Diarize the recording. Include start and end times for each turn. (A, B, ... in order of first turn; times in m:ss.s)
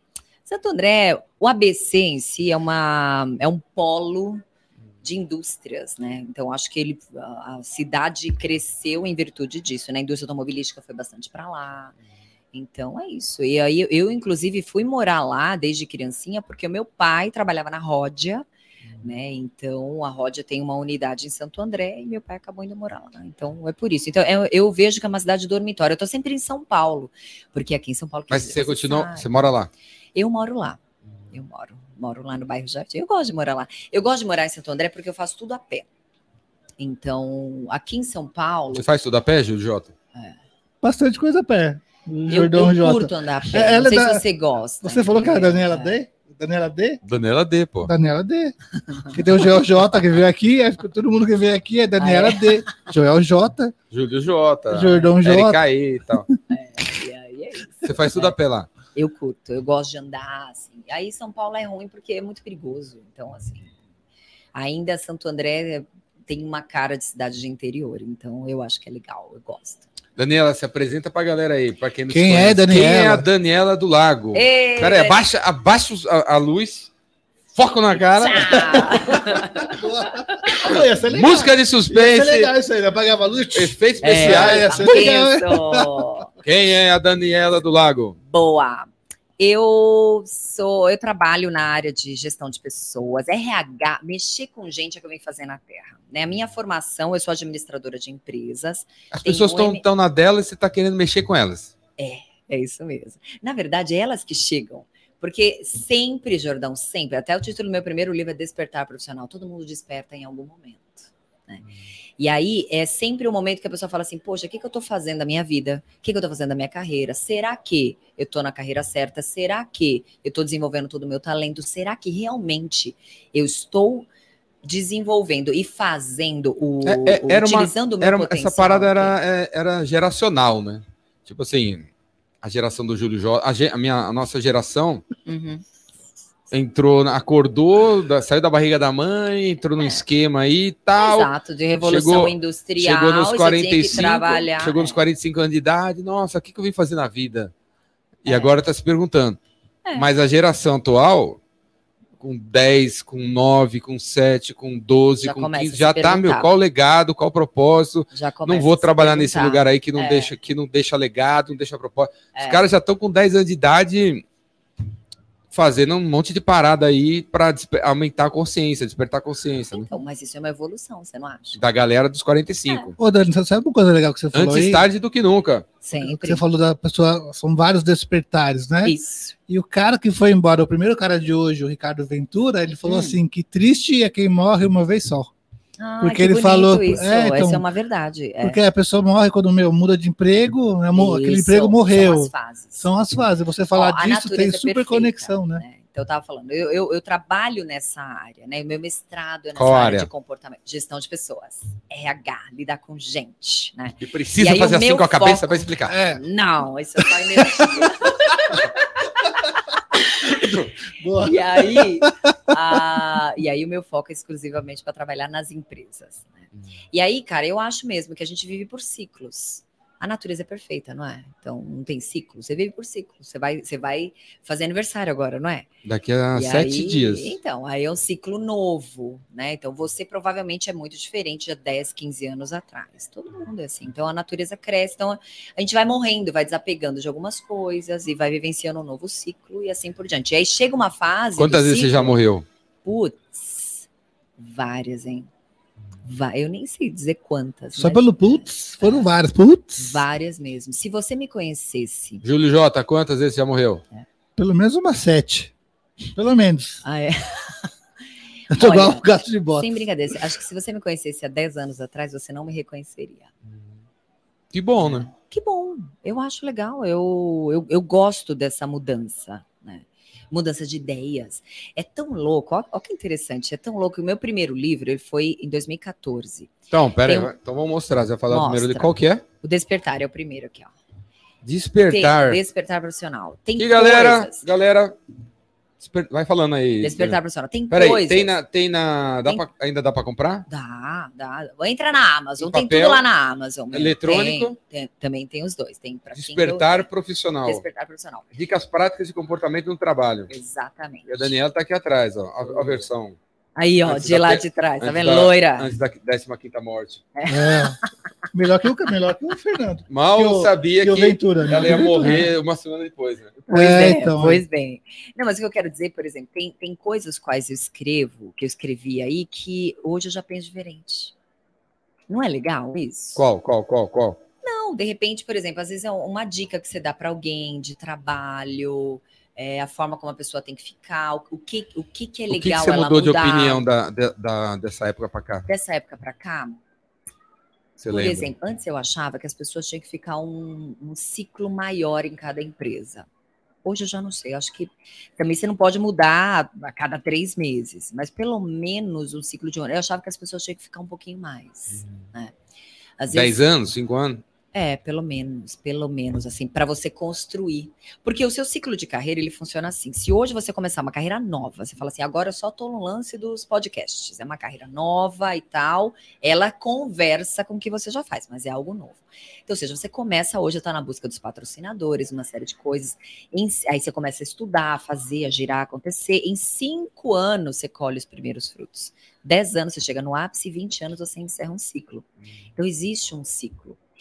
0:00.4-0:04.4 A
0:05.0-0:11.9 A
0:12.5-0:18.4 A
0:19.0-0:29.5 A
0:28.3-0:29.7 B
0:30.1-0:30.8 A
0:31.3-0:35.9 A
0:36.8-0:38.9 A
0:38.7-0:39.9 B
0:40.8-0:44.2 C
0:42.3-0:46.0 A
0:44.8-0:47.0 C
0:47.0-0:47.9 B
0:47.8-0:48.6 C
0:49.1-0:53.7 C
0:52.0-0:52.8 A
0:53.9-0:56.3 B
0:54.7-0:55.6 C
0:56.5-0:58.4 A
0:57.8-0:58.7 B
0:58.9-1:03.7 A
1:04.5-1:09.9 A
1:10.2-1:16.9 B
1:12.1-1:13.3 C
1:14.3-1:15.2 A
1:17.6-1:18.8 B
1:18.2-1:20.5 A
1:18.5-1:26.1 C
1:20.7-1:22.5 B
1:23.5-1:25.1 B
1:24.0-1:26.3 A
1:26.4-1:28.2 B
1:28.2-1:39.8 A
1:39.1-1:41.7 B
1:42.0-1:51.6 A
1:52.2-2:04.1 A
2:04.6-2:09.1 A
2:06.8-2:11.9 B
2:12.4-2:15.0 B
2:15.2-2:15.6 A
2:16.5-2:21.3 B
2:21.0-2:25.0 A
2:21.8-2:27.5 B
2:28.2-2:29.4 B
2:28.3-2:28.5 A
2:30.0-2:31.4 B
2:32.2-2:44.2 B
2:35.2-2:36.5 A
2:38.1-2:40.3 A
2:42.4-2:42.6 A
2:45.5-2:49.9 B
2:49.7-2:51.6 A
2:51.6-2:53.0 B
2:53.0-2:54.9 C
2:54.3-2:55.7 B
2:55.8-2:56.4 A
2:56.0-2:59.0 C
2:58.8-2:59.4 A
2:59.5-3:05.3 C
3:02.8-3:03.2 A
3:05.8-3:08.6 A
3:06.0-3:07.6 C
3:08.4-3:15.6 C
3:10.9-3:12.9 A
3:13.7-3:30.6 A
3:19.6-3:20.1 B
3:24.0-3:26.0 B
3:25.8-3:26.2 C
3:27.2-3:27.9 C
3:31.0-3:32.8 C
3:31.2-3:45.7 A
3:45.8-3:47.4 B
3:46.3-4:02.2 A
4:01.4-4:02.4 B
4:02.8-4:03.9 A
4:04.4-4:05.3 A
4:06.0-4:09.1 A
4:07.8-4:10.0 C
4:09.8-4:12.2 A
4:12.2-4:13.8 B
4:14.4-4:15.5 C
4:16.1-4:16.8 C
4:16.8-4:17.7 A
4:18.5-4:23.3 A
4:18.5-4:20.2 C
4:24.5-4:25.1 B
4:24.8-4:36.5 A
4:36.7-4:39.2 B
4:37.0-4:37.3 A
4:38.3-4:40.7 A
4:41.4-4:42.4 B
4:41.9-4:44.4 A
4:43.6-4:45.0 B
4:45.8-4:47.2 B
4:46.8-4:48.3 A
4:47.7-4:50.4 B
4:50.5-4:56.9 A
4:52.4-4:53.0 B
4:53.7-4:54.6 B
4:56.1-4:57.6 B
4:57.4-4:58.3 A
4:58.3-5:00.3 B
5:00.3-5:01.3 A
5:01.1-5:03.2 B
5:03.6-5:05.7 A
5:03.9-5:07.0 B
5:07.2-5:07.9 A
5:07.3-5:07.8 C
5:08.3-5:12.3 C
5:09.9-5:13.4 B
5:13.5-5:14.4 C
5:13.5-5:21.1 A
5:22.1-5:23.2 A
5:23.2-5:24.2 B
5:24.4-5:33.6 A
5:32.3-5:35.5 B
5:35.5-5:36.6 A
5:37.8-5:38.3 B
5:37.9-5:43.1 A
5:43.6-5:52.3 A
5:53.0-5:53.4 A
5:53.1-5:54.2 B
5:54.5-6:22.0 A
6:22.6-6:23.8 A